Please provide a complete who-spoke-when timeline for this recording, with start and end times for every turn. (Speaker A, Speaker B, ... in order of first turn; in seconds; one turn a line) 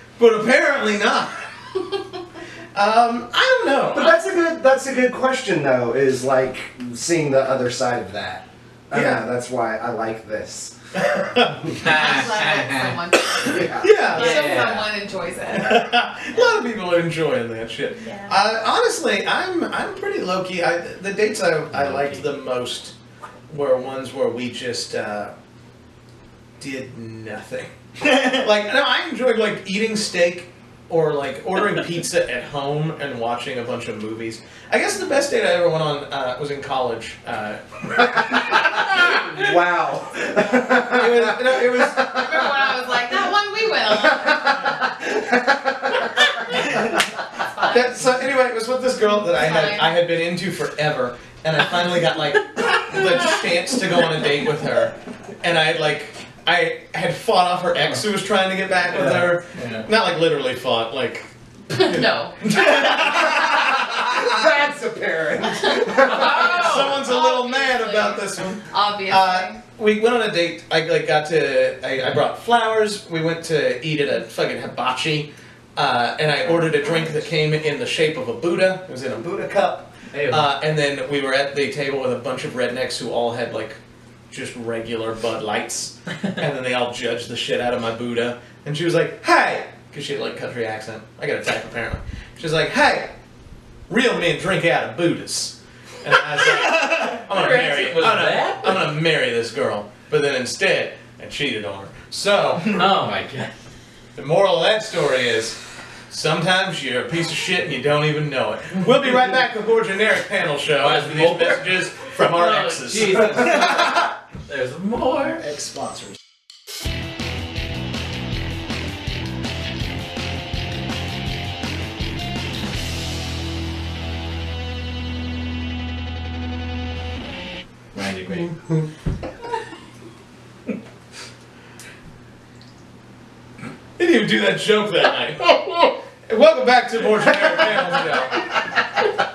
Speaker A: 0.2-1.5
Speaker A: 2.7-4.1
Speaker B: 3.9-10.8
Speaker A: 8.9-9.2
Speaker A: 10.9-11.7
Speaker C: 11.8-13.0
Speaker D: 11.8-16.6
Speaker A: 13.4-14.7
Speaker B: 13.5-13.9
Speaker C: 14.1-14.9
Speaker A: 15.5-22.9
Speaker D: 18.0-18.4
Speaker C: 21.7-22.2
Speaker A: 23.5-25.3
Speaker A: 26.6-39.5
Speaker E: 28.0-28.5
Speaker B: 38.3-42.4
Speaker A: 40.9-42.4
Speaker D: 42.1-44.6
Speaker B: 44.2-46.2
Speaker D: 46.4-47.9
Speaker A: 47.6-64.2
Speaker D: 49.3-49.9
Speaker E: 58.9-59.3
Speaker C: 59.5-59.9
Speaker D: 61.7-62.9
Speaker B: 62.7-66.7
Speaker D: 65.6-69.6
Speaker C: 66.1-66.9
Speaker A: 66.1-83.8
Speaker C: 80.1-80.5
Speaker A: 84.3-93.1
Speaker A: 93.9-102.8
Speaker E: 96.5-97.1
Speaker C: 97.2-98.8
Speaker C: 102.7-103.5
Speaker A: 104.2-114.1
Speaker C: 110.8-115.4
Speaker E: 113.4-113.8
Speaker E: 115.4-116.2
Speaker C: 127.9-128.5
Speaker A: 134.0-138.5